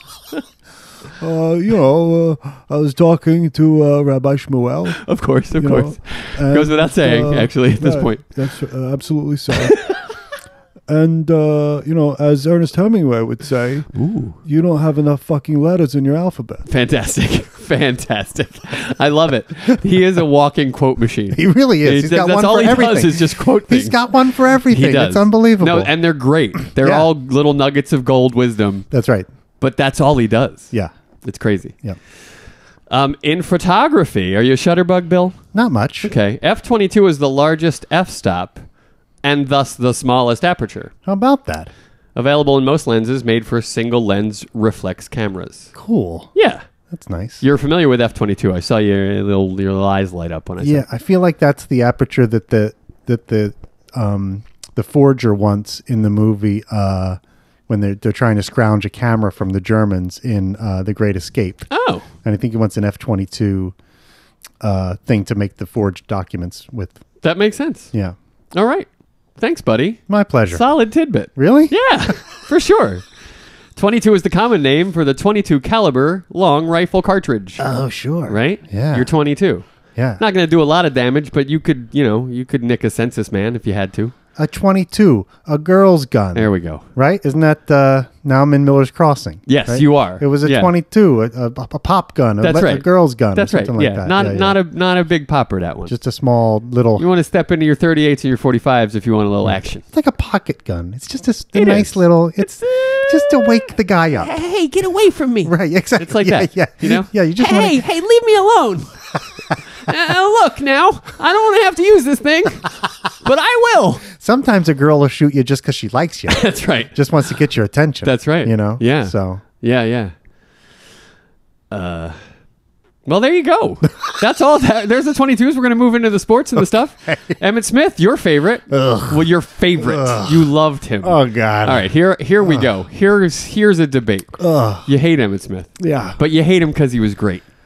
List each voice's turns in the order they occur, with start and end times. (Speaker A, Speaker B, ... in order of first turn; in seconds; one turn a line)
Speaker A: 1.2-5.0
Speaker B: 4.9-8.2
Speaker A: 5.6-9.8
Speaker B: 9.5-10.0
Speaker A: 10.9-13.9
Speaker B: 13.9-14.4
Speaker A: 14.4-16.6
Speaker B: 16.7-24.0
Speaker A: 21.3-25.9
Speaker B: 24.7-28.9
Speaker A: 26.8-27.1
Speaker A: 28.9-29.3
Speaker B: 29.6-30.7
Speaker B: 31.2-31.8
Speaker B: 32.9-35.4
Speaker A: 35.5-36.1
Speaker B: 36.0-38.6
Speaker B: 39.2-40.9
Speaker A: 41.1-41.7
Speaker B: 42.1-45.7
Speaker A: 45.8-46.3
Speaker B: 46.4-46.6
Speaker A: 46.9-47.4
Speaker B: 47.4-50.9
Speaker A: 50.6-61.7
Speaker B: 61.7-62.1
Speaker A: 62.2-63.8
Speaker A: 64.6-67.0
Speaker B: 67.2-67.9
Speaker B: 68.5-73.0
Speaker A: 70.1-70.6
Speaker A: 71.3-71.7
Speaker B: 73.8-77.6
Speaker A: 77.6-79.1
Speaker B: 78.3-79.7
Speaker A: 80.0-80.2
Speaker B: 80.2-84.1
Speaker A: 84.4-94.6
Speaker B: 86.3-86.8
Speaker B: 89.5-90.7
Speaker B: 92.4-95.9
Speaker A: 95.9-97.0
Speaker B: 97.0-99.8
Speaker A: 99.5-104.3
Speaker B: 101.5-108.9
Speaker A: 105.5-107.9
Speaker B: 109.8-114.0
Speaker A: 114.1-119.4
Speaker B: 116.3-117.0
Speaker B: 118.0-120.1
Speaker B: 121.7-122.2
Speaker B: 123.1-137.4
Speaker A: 128.7-129.3
Speaker A: 129.8-130.5
Speaker A: 131.0-131.9
Speaker A: 132.4-132.7
Speaker A: 134.4-134.9
Speaker A: 135.8-136.2